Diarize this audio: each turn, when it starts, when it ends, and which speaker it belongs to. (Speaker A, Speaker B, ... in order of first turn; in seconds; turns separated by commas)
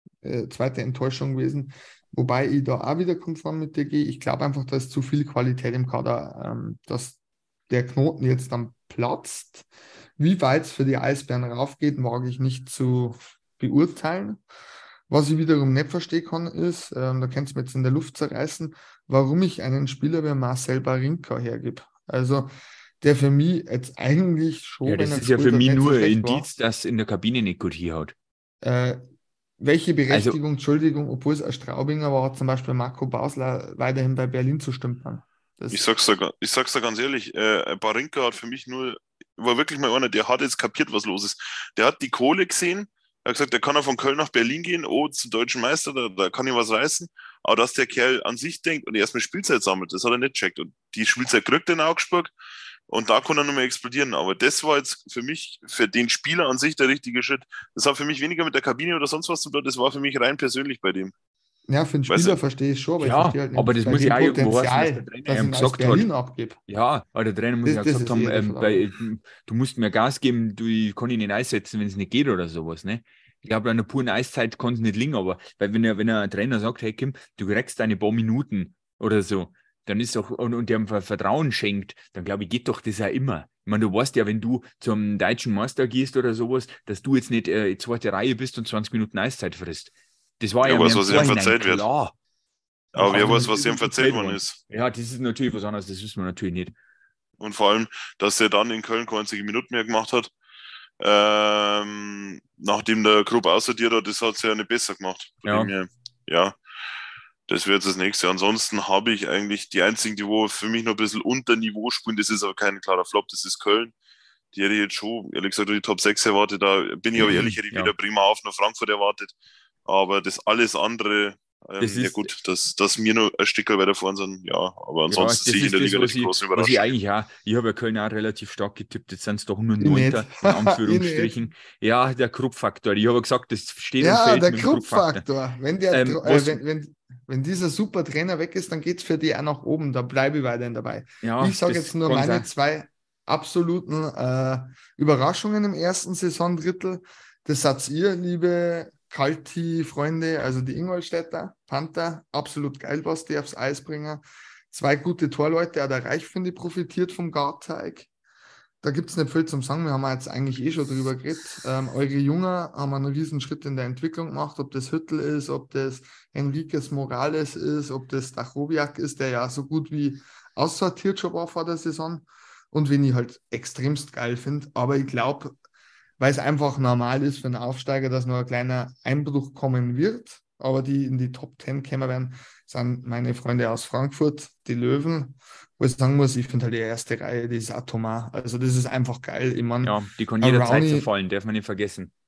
Speaker A: 0.2-7.2, Speaker A: 7.7-9.7, Speaker A: 10.2-14.4, Speaker A: 15.1-22.5, Speaker A: 23.0-26.5, Speaker B: 24.8-28.1, Speaker A: 28.6-29.0, Speaker A: 29.6-35.8, Speaker B: 30.1-30.4, Speaker C: 35.7-52.3, Speaker C: 52.9-61.1, Speaker A: 61.7-66.6, Speaker C: 62.1-62.4, Speaker B: 63.0-66.1, Speaker B: 66.7-92.1, Speaker A: 67.7-68.8, Speaker C: 90.6-91.9, Speaker C: 93.0-94.6, Speaker B: 93.0-96.8, Speaker C: 97.4-100.3, Speaker C: 101.0-106.6, Speaker B: 105.5-105.7, Speaker C: 107.5-113.9, Speaker C: 114.5-119.3, Speaker B: 117.2-118.0, Speaker C: 119.9-126.9, Speaker B: 121.8-122.3, Speaker B: 125.1-135.2, Speaker A: 129.8-131.3, Speaker A: 134.0-158.1, Speaker B: 135.9-136.6, Speaker B: 141.2-142.5, Speaker A: 158.8-175.6, Speaker A: 176.2-191.1, Speaker B: 189.8-192.1